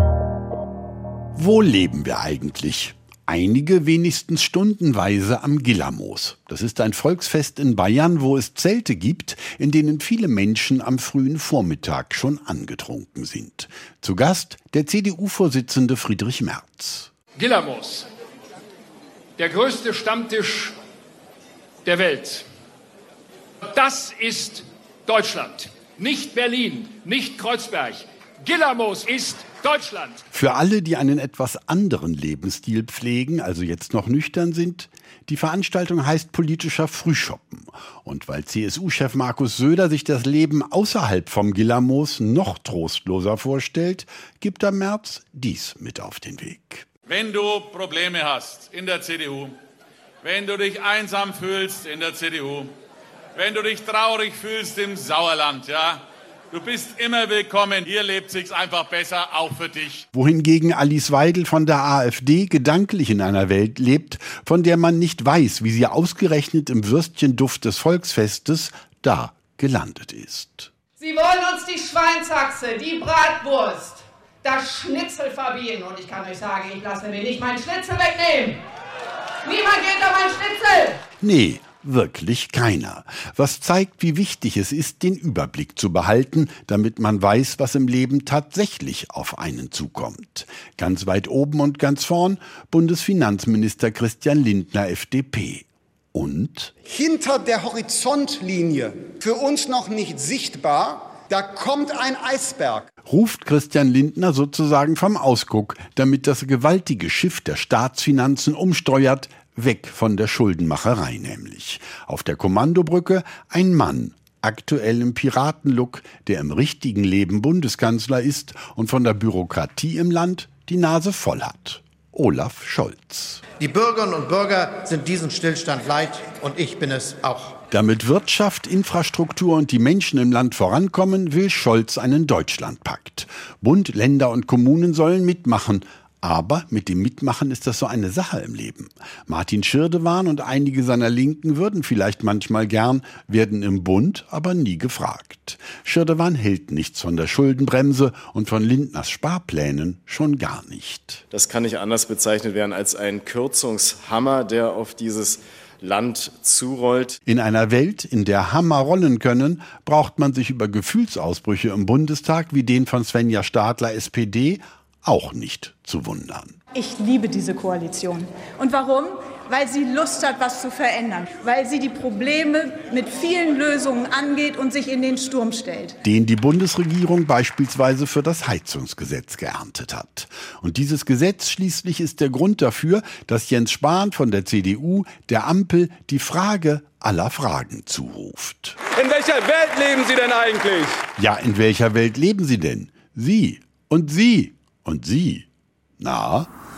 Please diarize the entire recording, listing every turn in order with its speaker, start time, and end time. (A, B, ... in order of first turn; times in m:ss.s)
0:01.3-0:17.1 A
0:17.4-0:18.1 B
0:19.4-0:20.7 B
0:21.8-0:22.4 B
0:23.7-0:30.2 B
0:30.3-0:46.9 A
0:47.1-0:49.5 C
0:50.2-0:52.7 C
0:53.4-0:56.0 C
0:56.5-1:00.0 C
1:00.1-1:10.7 A
1:11.0-1:18.6 D
1:19.4-1:21.0 D
1:21.2-1:36.7 A
1:36.8-1:42.9 E
1:43.0-2:03.4 A
2:03.6-2:07.5 F
2:07.7-2:31.2 A
2:31.3-2:37.2 G
2:37.2-2:46.6 A
2:46.7-2:56.0 H
2:56.0-3:08.8 A
3:09.0-3:10.9 I
3:11.2-3:15.5 A
3:16.0-3:16.5 A